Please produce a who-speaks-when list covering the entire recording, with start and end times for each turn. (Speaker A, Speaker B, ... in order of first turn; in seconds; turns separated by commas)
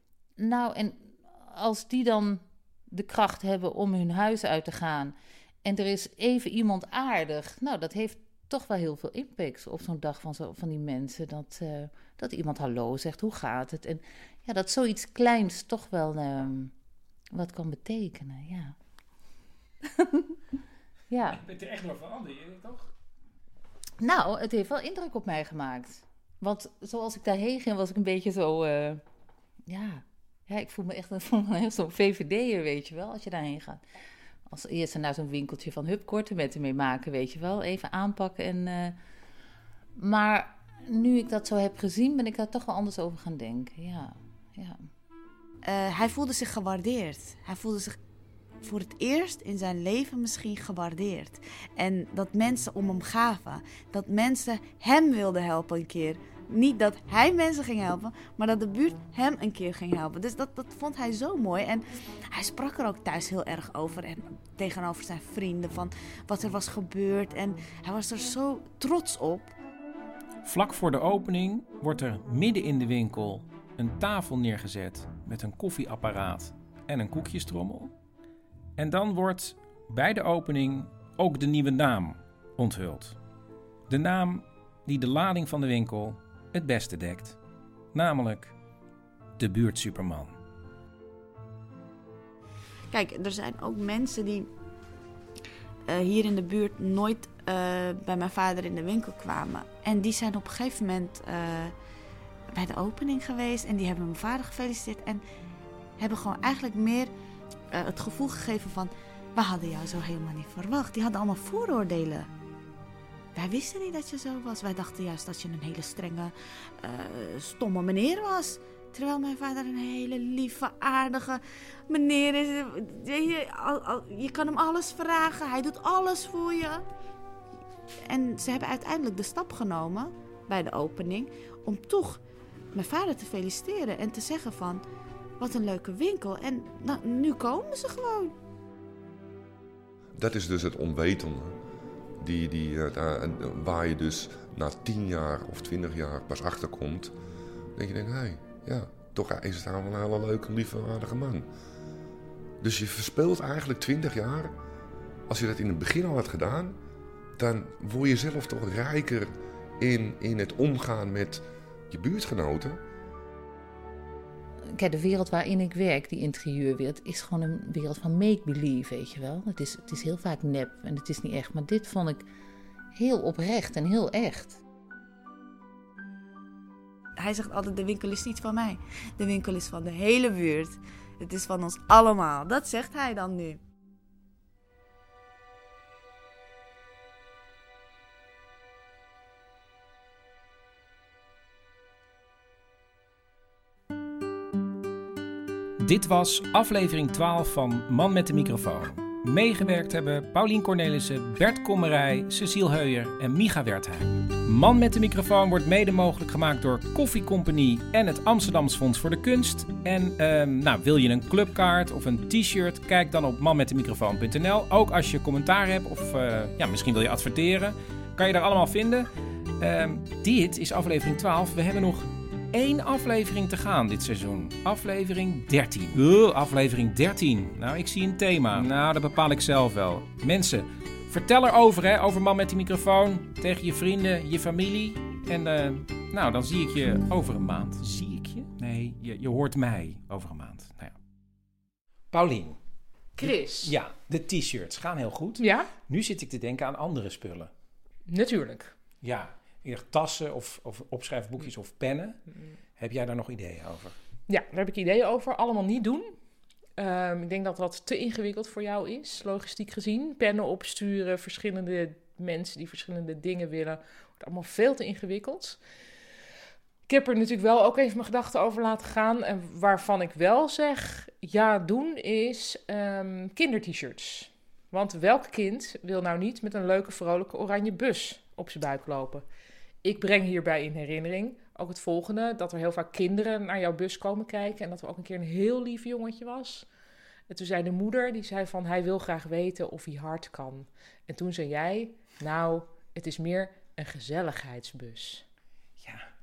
Speaker A: 0.4-16.7, Speaker A: 17.3-18.8, Speaker A: 20.0-20.4, Speaker A: 21.1-21.4, Speaker B: 21.3-22.9, Speaker A: 24.0-29.0, Speaker A: 29.7-33.8, Speaker A: 34.5-39.0, Speaker A: 40.0-44.9, Speaker C: 45.6-48.0, Speaker C: 48.6-69.5, Speaker B: 70.4-77.9, Speaker B: 78.8-83.2, Speaker B: 83.9-87.4, Speaker B: 87.9-88.5, Speaker B: 89.4-90.4, Speaker C: 92.9-94.5, Speaker C: 95.9-101.8, Speaker C: 102.5-105.2, Speaker C: 106.0-107.1, Speaker C: 107.7-112.3, Speaker C: 113.3-126.8, Speaker C: 128.1-132.2, Speaker C: 132.7-134.8, Speaker C: 135.4-138.3, Speaker D: 140.2-141.6, Speaker D: 142.2-147.1, Speaker D: 147.8-151.5, Speaker D: 152.6-154.5, Speaker D: 155.3-156.8, Speaker D: 157.4-162.8, Speaker A: 164.7-172.3, Speaker A: 173.0-174.6, Speaker C: 177.2-183.6, Speaker B: 195.8-219.1, Speaker B: 219.6-241.0, Speaker B: 242.1-242.6, Speaker E: 243.2-243.8, Speaker B: 243.2-247.5, Speaker E: 245.4-245.7, Speaker E: 248.1-248.7, Speaker B: 249.0-252.2, Speaker B: 252.8-253.9, Speaker E: 254.3-256.2, Speaker E: 256.8-265.6, Speaker E: 266.9-279.3, Speaker E: 279.8-286.7, Speaker E: 287.3-295.2